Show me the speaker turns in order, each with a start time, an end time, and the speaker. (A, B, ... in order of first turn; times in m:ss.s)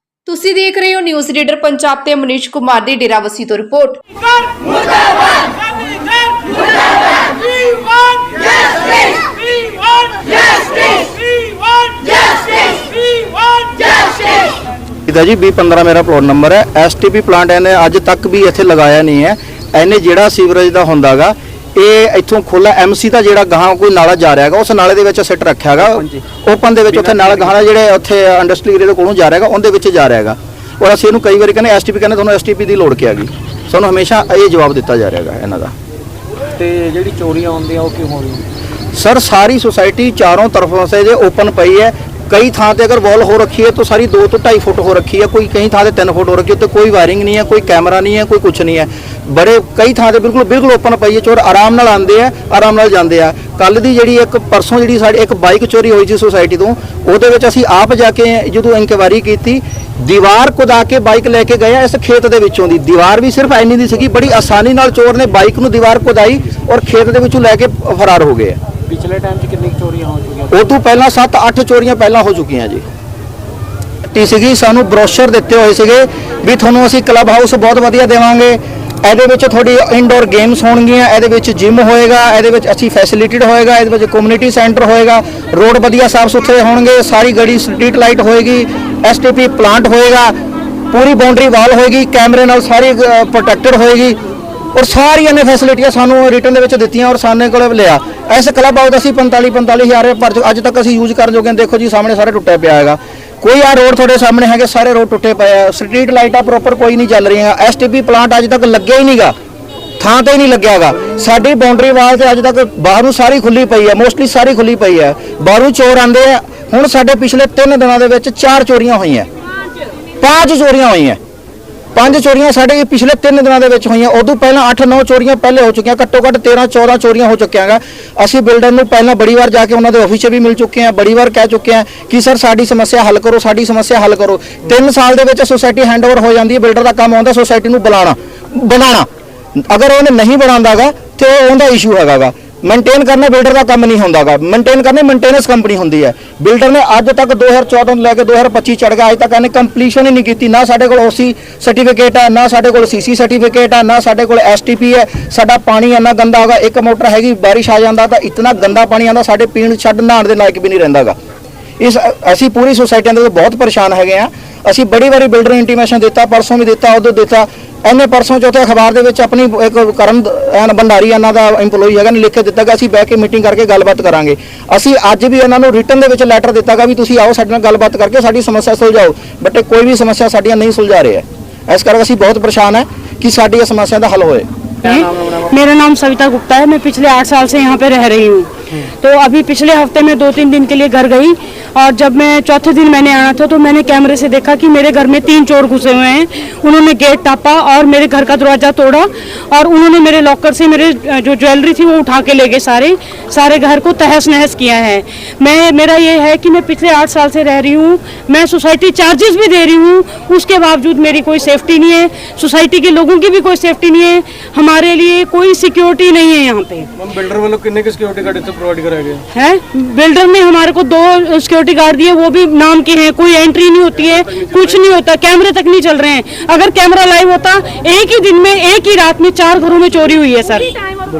0:00.2-0:04.0 A
0:15.1-0:35.7 B
0:36.6-0:38.4 C
0:38.9-1:08.6 B
1:08.9-1:10.5 C
1:10.5-1:12.8 B
1:14.1-1:30.3 B
1:30.9-1:34.2 B
1:34.8-1:49.3 B
1:50.0-1:59.3 B
2:00.2-2:01.2 B
2:01.9-2:19.1 B
2:19.6-2:41.2 B
2:41.8-3:04.5 B
3:04.8-3:36.9 D
3:37.0-3:39.2 E
3:39.3-3:50.8 D